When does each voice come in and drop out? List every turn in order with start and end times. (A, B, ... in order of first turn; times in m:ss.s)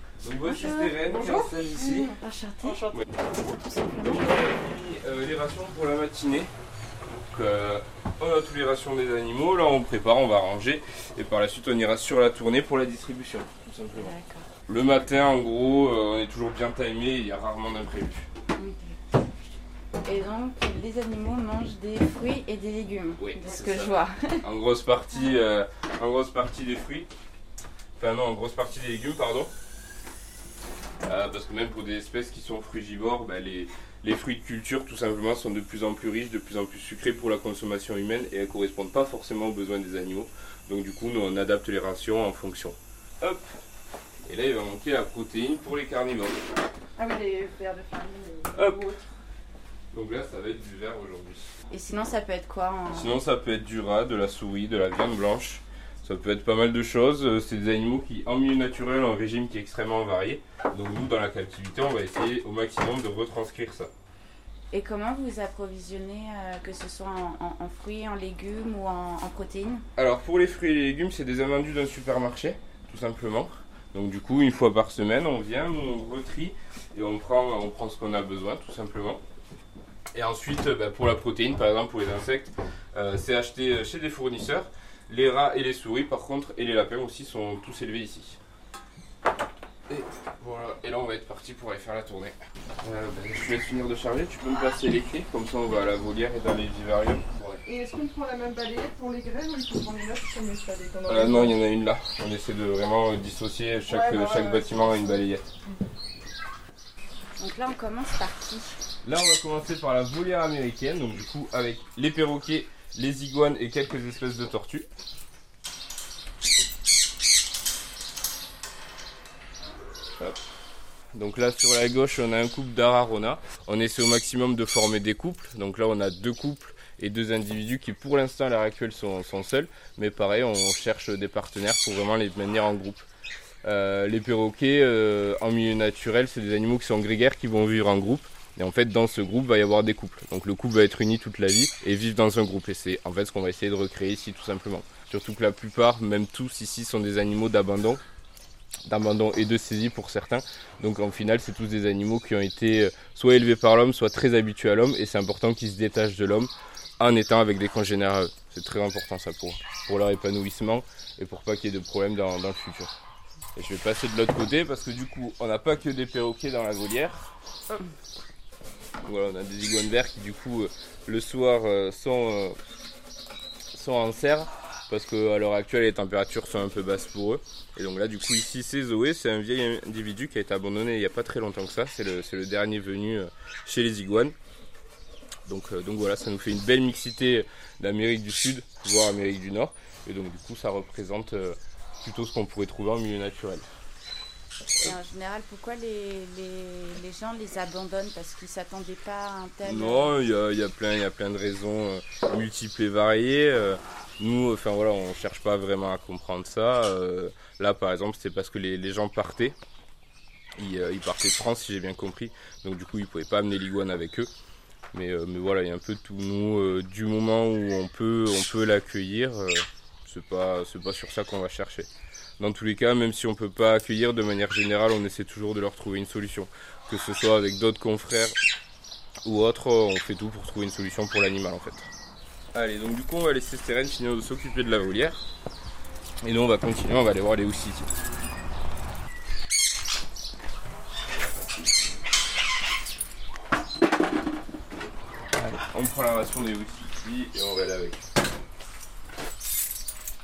0:00.2-0:02.1 A
0:00.4-0:04.3 B
0:02.8-0:03.0 A
0:04.0-0:06.5 A
0:07.3-0:14.1 A
0:14.0-0:14.5 B
0:14.7-0:18.2 A
0:18.6-0:19.0 B
0:20.0-0:24.4 B
0:23.2-0:27.1 A
0:28.0-0:29.5 A
0:31.0-0:43.4 A
0:44.2-0:46.5 A
0:47.0-0:49.1 C
0:48.5-0:48.9 A
0:49.9-0:51.5 A
0:51.7-0:53.1 B
0:52.9-1:03.9 A
1:04.7-1:09.8 B
1:10.0-1:19.2 A
1:20.1-1:28.4 A
1:29.9-1:37.6 A
1:37.6-1:41.5 C
1:41.1-1:45.5 A
1:43.9-1:45.2 C
1:47.4-1:48.8 B
1:49.0-1:54.9 A
2:01.1-2:13.0 A
2:13.6-2:28.0 A
2:28.8-2:42.9 A
2:43.6-2:47.3 A
2:49.0-2:52.6 A
2:53.7-3:04.3 A
3:05.5-3:13.6 A
3:14.8-3:20.1 B
3:19.6-3:29.5 A
3:30.6-3:34.3 A
3:34.9-3:48.4 A
3:49.2-3:51.9 A
3:52.5-3:55.2 A
3:56.2-3:57.8 A
4:05.3-4:08.0 A